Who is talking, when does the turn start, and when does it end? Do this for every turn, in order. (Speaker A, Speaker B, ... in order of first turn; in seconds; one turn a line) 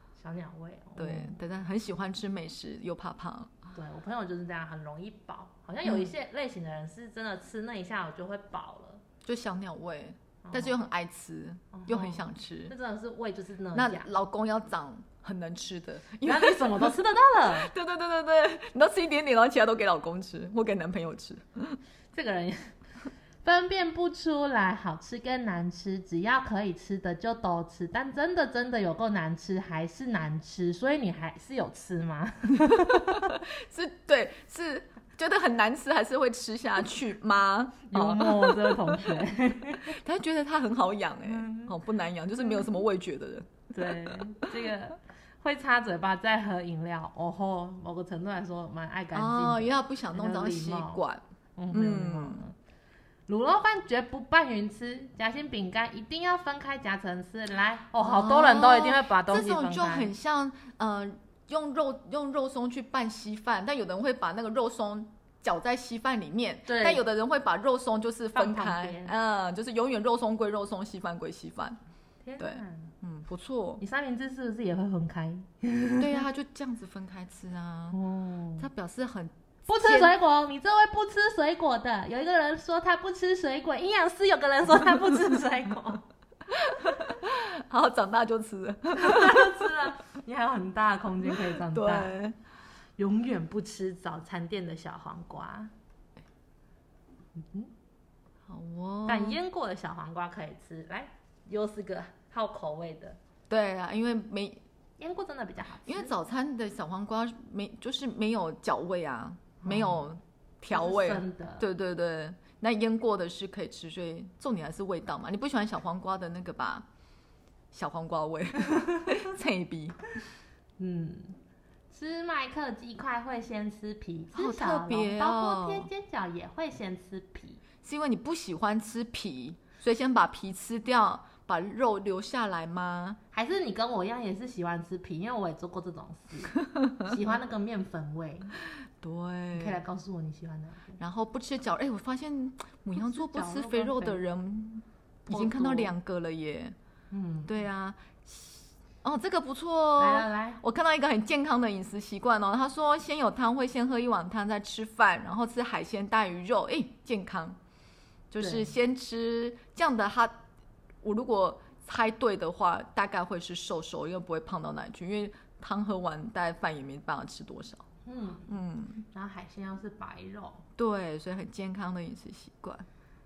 Speaker A: 0.1-1.4
Speaker B: 1.0-3.6
Speaker A: 3.7-9.0
Speaker B: 5.8-6.1
Speaker B: 9.2-12.7
Speaker A: 10.4-10.7
Speaker A: 11.7-14.1
Speaker B: 13.7-17.0
Speaker A: 16.2-17.7
Speaker B: 17.5-21.8
Speaker A: 22.1-22.7
Speaker A: 23.4-33.3
Speaker B: 32.6-39.0
Speaker A: 37.9-40.0
Speaker B: 39.9-44.4
Speaker A: 41.3-41.7
Speaker A: 43.7-51.0
Speaker B: 49.1-52.4
Speaker A: 51.6-52.5
Speaker A: 53.3-60.1
Speaker B: 58.0-71.8
Speaker A: 66.7-67.0
Speaker A: 68.3-69.1
Speaker A: 72.2-72.9
Speaker B: 72.4-73.8
Speaker A: 73.8-76.2
Speaker B: 76.0-78.0
Speaker A: 77.9-78.7
Speaker B: 78.6-80.1
Speaker A: 79.7-86.0
Speaker B: 86.5-89.5
Speaker A: 88.9-92.1
Speaker B: 91.4-92.3
Speaker A: 93.0-95.7
Speaker A: 97.3-97.7
Speaker B: 98.5-99.4
Speaker A: 99.0-103.2
Speaker B: 103.5-104.6
Speaker A: 105.0-106.1
Speaker B: 105.9-116.8
Speaker A: 109.6-110.0
Speaker A: 110.7-111.6
Speaker B: 117.7-120.0
Speaker A: 120.8-121.4
Speaker A: 121.9-127.6
Speaker B: 124.3-125.9
Speaker B: 127.8-133.2
Speaker A: 133.3-138.5
Speaker B: 136.7-137.2
Speaker B: 139.0-139.8
Speaker A: 139.5-141.0
Speaker B: 141.0-146.7
Speaker A: 142.9-144.2
Speaker A: 145.3-145.9
Speaker A: 147.1-147.5
Speaker B: 147.4-157.6
Speaker A: 150.0-150.6
Speaker B: 158.3-160.3
Speaker A: 158.4-158.7
Speaker B: 161.0-167.8
Speaker A: 168.1-168.5
Speaker B: 168.5-169.0
Speaker A: 169.1-170.6
Speaker B: 170.8-172.8